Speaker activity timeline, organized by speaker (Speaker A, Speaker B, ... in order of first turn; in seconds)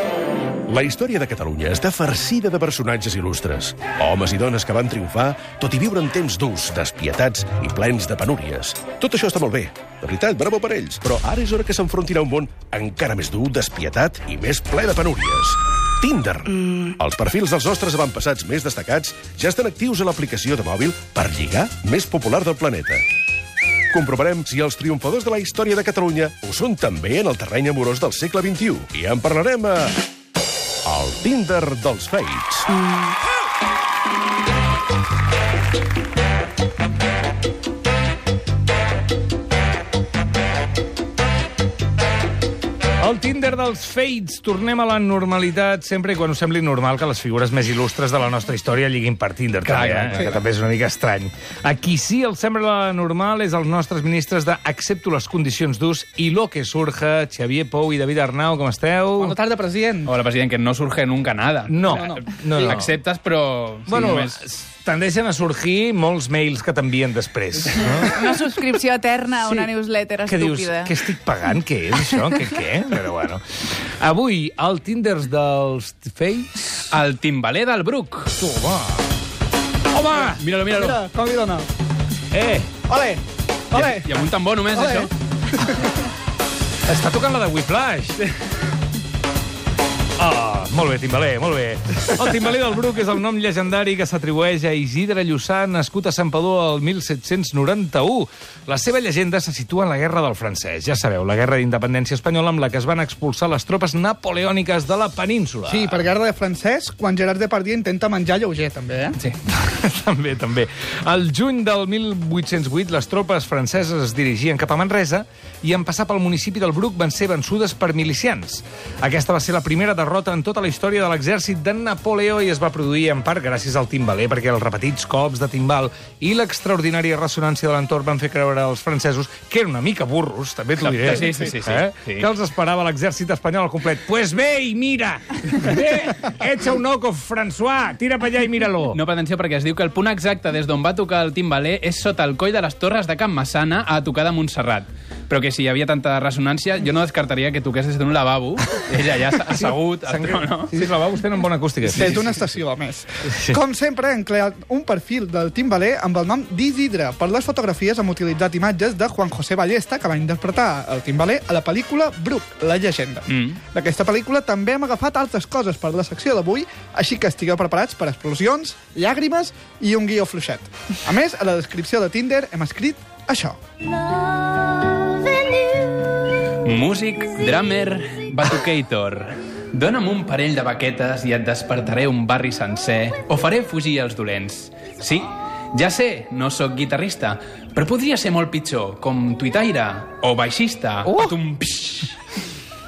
Speaker A: 0.7-23.0, 23.9-30.0, 30.8-32.7
Speaker B: 43.0-59.4, 61.7-62.9, 63.9-68.3, 70.2-73.4, 74.0-76.9, 78.4-79.1, 79.9-80.4, 82.3-82.7, 86.9-88.2, 90.2-106.0, 109.3-139.0, 149.5-152.2, 153.2-153.6, 191.0-191.3
Speaker C: 49.6-50.3, 60.0-64.4, 76.9-78.3, 80.3-81.0, 83.7-85.1, 130.8-132.3, 138.9-150.8, 152.0-152.3, 163.3-163.6, 176.6-192.2
Speaker D: 59.2-60.1, 61.8-62.2, 80.7-81.7, 82.9-84.2, 84.7-85.9, 105.7-109.2, 151.8-173.6
Speaker E: 68.1-70.9